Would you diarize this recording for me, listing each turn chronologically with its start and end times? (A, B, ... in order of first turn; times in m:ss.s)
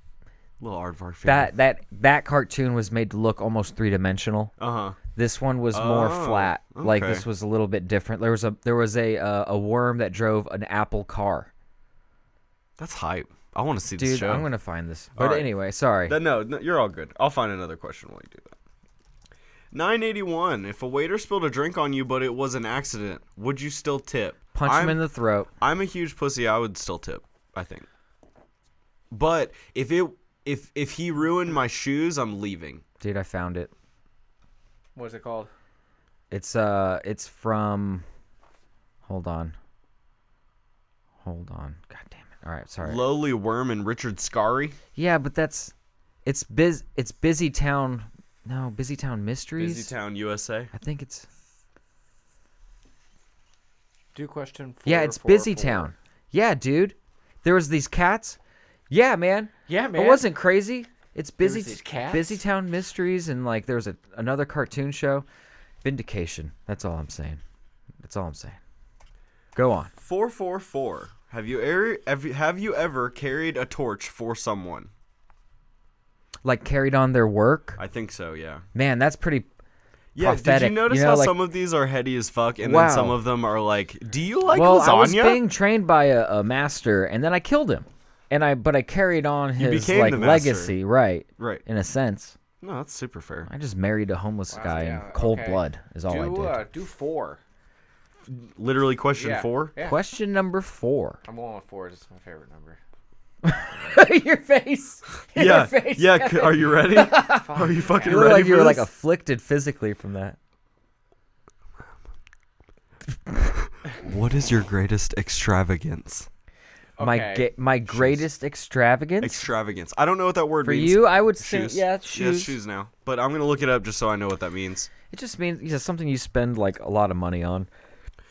0:00.6-0:01.5 A
0:01.2-0:04.5 B
0:04.6-0:05.0 A
0:05.2-0:11.5 B
0:05.7-0:07.2 A
0:12.8-0:14.5 A
0:14.0-0:16.2 B
0:15.2-0:15.5 A
0:16.1-0:18.6 A
0:19.7-0:25.0 A
0:24.6-0:25.5 B
0:25.6-0:27.9 A
0:29.1-0:32.8 A
0:33.0-0:33.7 B
0:35.0-0:35.5 C
0:36.3-0:38.0 B
0:39.1-0:39.6 B
0:41.2-0:43.0 B
0:42.8-0:44.8 A
0:45.0-0:45.7 B
0:46.2-0:49.9 B
0:49.6-0:50.7 A
0:50.7-0:51.3 B
0:54.2-0:55.9 C
0:54.8-0:58.4 B
0:58.9-1:05.3 B
0:59.7-1:00.2 C
1:01.4-1:02.4 C
1:05.8-1:07.4 B
1:08.0-1:08.6 B
1:09.6-1:09.9 B
1:10.0-1:14.9 A
1:16.4-1:17.8 B
1:17.8-1:18.6 A
1:18.7-1:19.5 B
1:20.2-1:25.4 A
1:20.2-1:21.4 B
1:22.6-1:23.2 B
1:24.5-1:32.4 B
1:29.6-1:30.8 A
1:31.4-1:31.6 A
1:32.6-1:33.5 A
1:33.5-1:36.6 B
1:34.5-1:37.4 C
1:38.3-1:39.7 A
1:39.1-1:40.0 C
1:39.8-1:41.2 B
1:41.3-1:42.8 C
1:43.4-1:50.4 B
1:45.3-1:48.9 A
1:47.4-1:48.4 C
1:53.6-1:56.3 A
1:57.0-1:57.5 C
1:57.0-1:59.5 B
1:57.9-1:58.3 A
1:59.2-2:04.9 A
2:00.6-2:02.6 B
2:05.1-2:07.7 B